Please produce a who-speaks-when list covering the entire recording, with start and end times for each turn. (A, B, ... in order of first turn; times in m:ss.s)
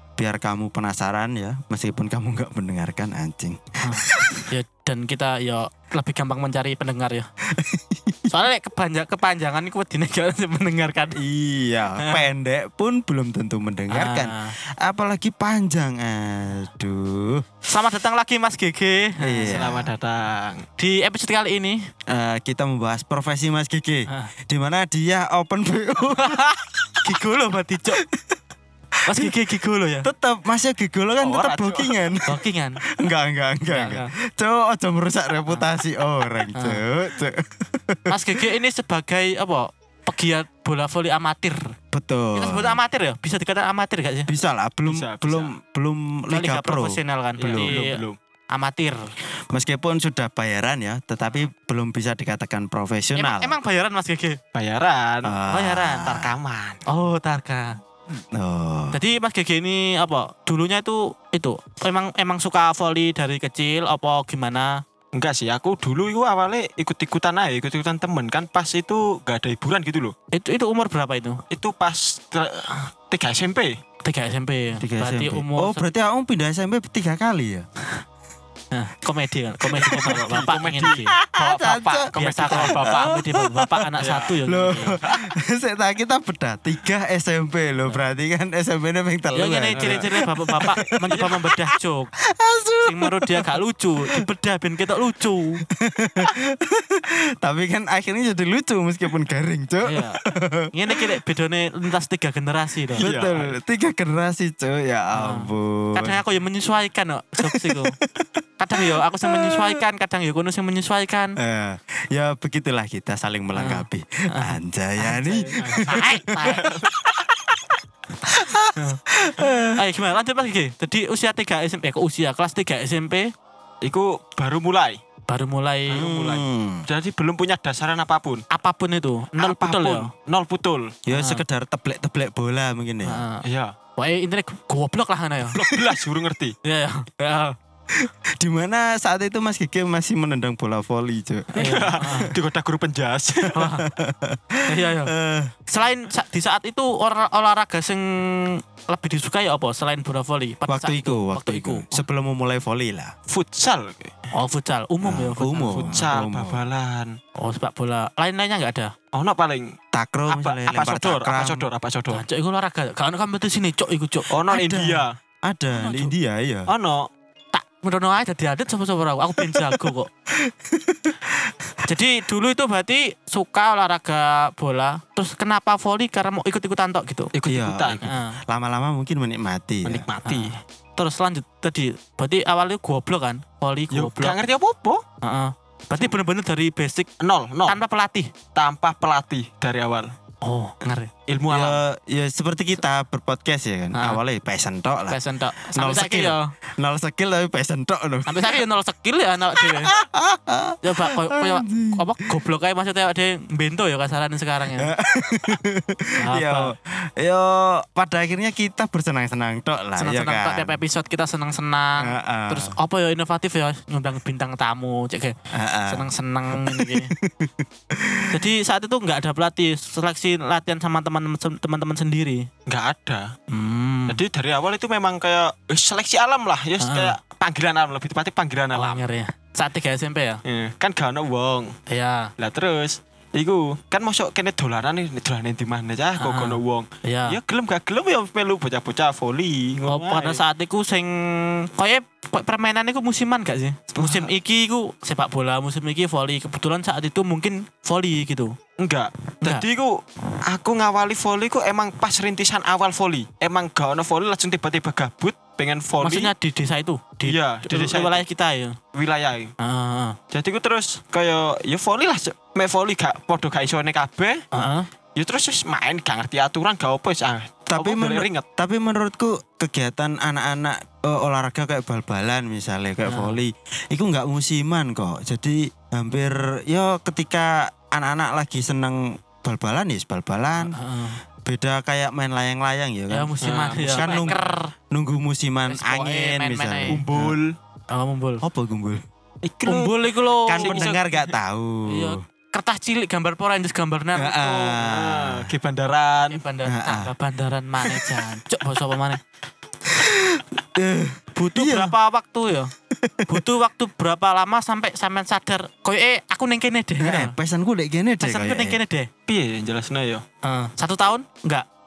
0:00.2-0:04.4 A
0:03.8-0:07.3 B
0:07.5-0:08.2 A
0:08.3-0:11.2 B
0:11.1-0:17.4 A
0:12.0-0:12.2 B
0:13.9-0:14.5 B
0:17.7-0:19.6 B
0:19.2-0:19.9 A
0:19.4-0:20.6 C
0:20.8-0:21.8 B
0:22.1-0:27.1 A
0:26.1-0:28.0 B
0:28.1-0:28.4 A
0:29.1-0:30.1 B
0:29.1-0:29.3 A
0:30.0-0:38.4 A
0:31.2-0:32.1 C
0:32.3-0:32.8 B
0:33.7-0:34.1 B
0:36.5-0:36.8 B
0:38.1-0:41.7 B
0:41.9-0:42.8 A
0:42.3-0:44.3 B
0:44.3-0:47.7 A
0:44.9-0:45.5 C
0:46.3-0:48.0 B
0:47.4-0:48.2 C
0:48.5-0:49.1 B
0:49.5-0:53.6 A
0:53.2-0:54.4 B
0:54.5-0:55.3 C
0:55.2-0:56.3 A
0:55.5-0:56.2 B
0:56.2-0:56.8 C
0:56.9-0:57.8 B
0:58.3-0:59.0 A
0:58.9-1:04.8 B
1:05.1-1:10.1 C
1:10.3-1:11.4 B
1:11.5-1:13.8 C
1:14.0-1:15.9 B
1:14.8-1:17.7 A
1:18.7-1:21.1 B
1:19.7-1:23.1 C
1:21.4-1:31.6 A
1:22.1-1:25.0 B
1:24.0-1:24.3 C
1:25.0-1:25.3 C
1:29.3-1:32.1 B
1:32.2-1:33.4 A
1:32.8-1:35.6 B
1:35.7-1:41.2 A
1:39.8-1:40.2 B
1:40.7-1:43.1 B
1:43.0-1:46.2 A
1:43.0-1:43.4 C
1:45.1-1:47.9 B
1:47.4-1:49.8 A
1:48.6-1:51.4 B
1:51.4-1:56.6 A
1:53.5-1:56.6 B
1:55.1-1:57.2 C
1:58.3-1:59.8 A
1:58.8-1:59.0 B
1:59.7-2:03.3 B
2:03.8-2:05.0 C
2:05.3-2:06.1 B
2:05.9-2:08.4 C
2:05.9-2:06.8 A
2:08.5-2:10.1 B
2:09.4-2:11.0 C
2:11.0-2:13.2 A
2:11.1-2:11.4 B
2:13.0-2:13.4 B
2:13.4-2:13.7 C
2:14.0-2:15.6 B
2:15.5-2:16.6 C
2:16.6-2:17.6 B
2:17.9-2:22.3 A
2:21.6-2:22.3 B
2:21.6-2:23.6 C
2:23.5-2:23.8 B
2:23.5-2:25.5 A
2:24.7-2:25.1 B
2:25.7-2:31.8 B
2:30.7-2:33.1 A
2:33.3-2:34.1 C
2:34.3-2:36.0 B
2:35.0-2:36.6 A
2:35.7-2:37.2 C
2:37.4-2:38.9 B
2:39.1-2:39.7 C
2:39.9-2:41.6 A
2:40.3-2:42.2 C
2:42.1-2:44.3 B
2:44.3-2:45.1 C
2:44.5-2:46.7 A
2:45.7-2:46.1 B
2:46.7-2:47.1 C
2:47.5-2:50.1 B
2:49.4-2:51.7 A
2:51.8-2:57.3 B
2:57.3-2:58.0 C
2:57.5-3:00.0 A
2:58.0-2:58.4 B
2:59.8-3:00.5 C
3:00.2-3:04.4 B
3:03.9-3:05.0 C
3:05.2-3:07.1 B
3:07.2-3:07.8 C
3:07.7-3:08.3 B
3:08.5-3:10.1 C
3:10.4-3:11.1 B
3:11.3-3:11.8 C
3:11.5-3:18.6 A
3:13.9-3:14.2 B
3:15.1-3:16.5 B
3:18.3-3:19.9 B
3:19.5-3:22.4 A
3:20.8-3:24.9 B
3:24.8-3:30.8 A
3:26.2-3:26.7 B
3:30.0-3:35.3 B
3:32.0-3:32.7 A
3:35.5-3:38.4 A
3:35.9-3:37.1 B
3:38.3-3:42.5 B
3:42.7-3:43.3 C
3:43.5-3:44.2 B
3:44.1-3:49.0 C
3:46.8-3:47.2 B
3:48.7-3:50.4 B
3:50.4-3:51.7 C
3:51.9-3:52.3 B
3:52.4-4:00.4 C
3:56.2-3:57.4 B
3:59.9-4:08.5 B
4:04.0-4:04.3 C
4:08.8-4:16.3 C
4:16.0-4:18.8 B
4:17.2-4:18.2 C
4:18.9-4:19.5 C
4:19.6-4:20.2 B
4:20.3-4:24.4 C
4:24.5-4:24.9 B
4:25.2-4:28.4 C
4:27.7-4:40.8 A
4:33.0-4:33.4 B
4:40.6-4:41.2 B
4:41.4-4:43.3 A
4:43.1-4:44.7 B
4:43.4-4:44.3 C
4:43.9-4:44.4 A
4:44.9-4:47.4 A
4:45.7-4:47.0 B
4:46.9-4:47.5 C
4:47.9-4:48.4 B
4:48.4-4:49.0 A
4:49.4-4:50.0 C
4:49.6-4:50.8 B
4:50.4-4:52.2 A
4:50.5-4:51.3 C
4:51.9-4:54.8 B
4:54.1-4:55.5 A
4:54.8-4:56.4 C
4:56.3-4:59.2 B
4:56.6-4:57.1 A
4:57.8-4:58.2 A
4:59.9-5:01.9 A
5:01.3-5:02.7 B
5:02.9-5:03.4 A
5:03.3-5:07.3 B
5:07.0-5:08.8 A
5:08.2-5:09.1 B
5:09.3-5:10.2 C
5:10.4-5:11.6 B